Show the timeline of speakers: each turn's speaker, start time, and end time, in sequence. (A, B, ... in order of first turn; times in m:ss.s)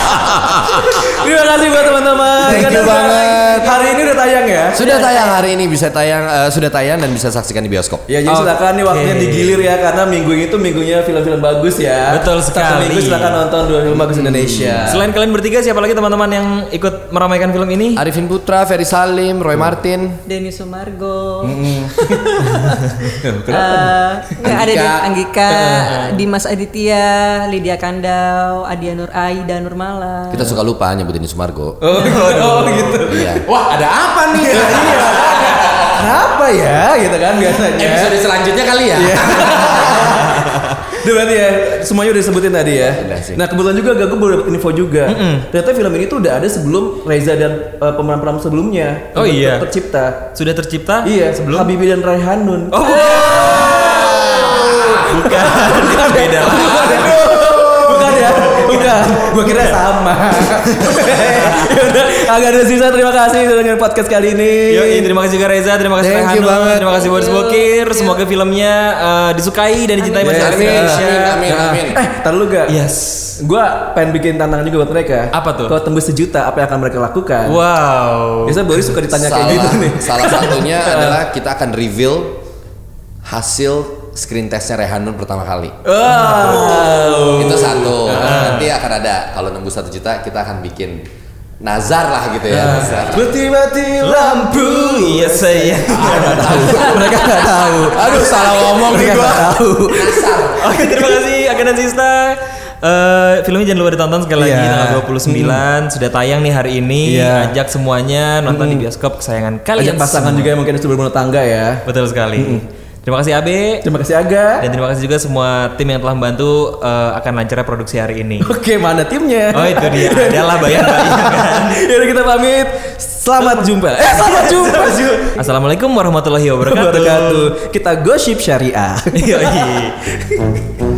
0:00.9-0:04.8 A
0:02.4-0:03.8 B
0:02.5-0:03.1 C
0:04.7-0:08.1 B
0:04.8-0:05.4 D
0:08.1-0:15.0 A
0:08.3-0:09.6 C
0:12.1-0:13.4 C
0:14.3-0:15.0 B
0:14.9-0:18.0 C
0:18.0-0:20.2 B
0:20.3-0:30.5 D
0:21.4-0:22.3 A
0:23.2-0:24.6 A
0:24.4-0:25.1 E
0:25.5-0:25.9 A
0:25.8-0:26.2 C
0:30.3-0:31.8 B
0:31.8-0:33.4 A
0:31.9-0:33.0 C
0:33.1-0:33.4 B
0:33.4-0:36.1 E
0:34.4-0:38.2 A
0:37.6-0:40.0 E
0:38.9-0:50.3 A
0:40.3-0:40.6 C
0:42.8-0:43.4 B
0:45.1-0:45.5 C
0:49.2-0:49.7 C
0:50.3-0:51.7 C
0:51.0-1:05.1 A
0:52.7-0:59.8 C
0:57.4-0:58.0 B
1:00.8-1:01.7 C
1:04.7-1:11.4 C
1:06.0-1:07.0 B
1:06.9-1:08.2 D
1:10.0-1:10.4 D
1:10.2-1:12.8 A
1:10.3-1:12.0 B
1:12.7-1:13.4 C
1:13.4-1:17.6 A
1:15.3-1:15.8 C
1:17.5-1:18.9 C
1:18.4-1:21.2 A
1:19.0-1:22.4 B
1:23.2-1:25.8 B
1:25.8-1:28.6 A
1:26.1-1:27.3 C
1:27.4-1:31.1 B
1:28.1-1:28.7 C
1:31.6-1:33.3 B
1:32.5-1:40.8 A
1:32.6-1:33.2 C
1:34.0-1:37.4 C
1:36.0-1:40.9 E
1:38.0-1:39.5 B
1:40.6-1:50.6 C
1:44.4-1:45.6 A
1:47.0-1:47.6 A
1:48.5-1:48.8 A
1:49.8-1:51.8 A
1:51.9-1:53.8 C
1:52.4-1:52.6 A
1:53.8-1:54.7 A
1:54.6-1:58.5 C
1:58.4-2:05.1 A
1:59.5-2:01.8 C
2:03.4-2:07.5 C
2:06.6-2:10.5 A
2:09.1-2:10.0 C